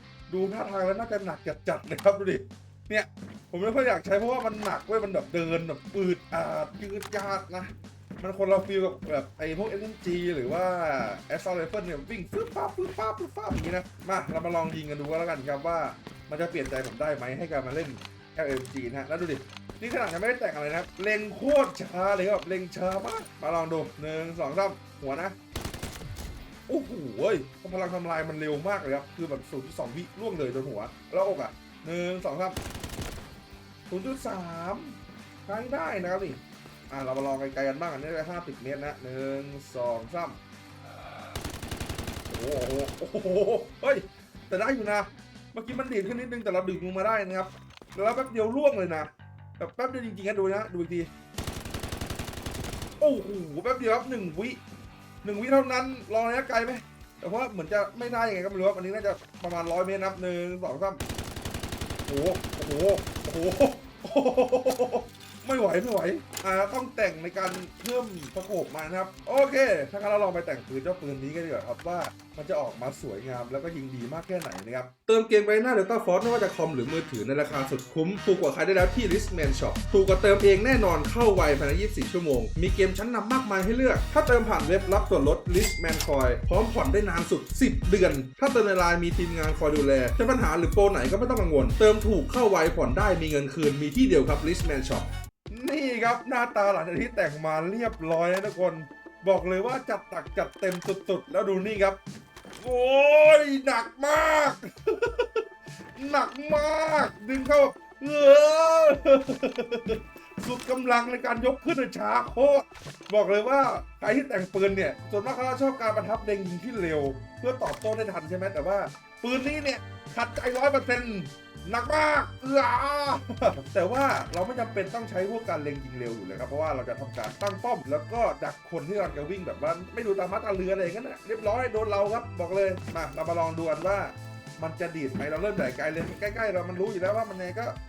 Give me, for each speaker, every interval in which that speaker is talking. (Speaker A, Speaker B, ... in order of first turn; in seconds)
Speaker A: 0.3-25.4, 26.7-32.6, 33.9-40.4, 42.3-51.1, 53.0-54.6, 55.2-61.0, 62.1-102.0, 102.6-137.8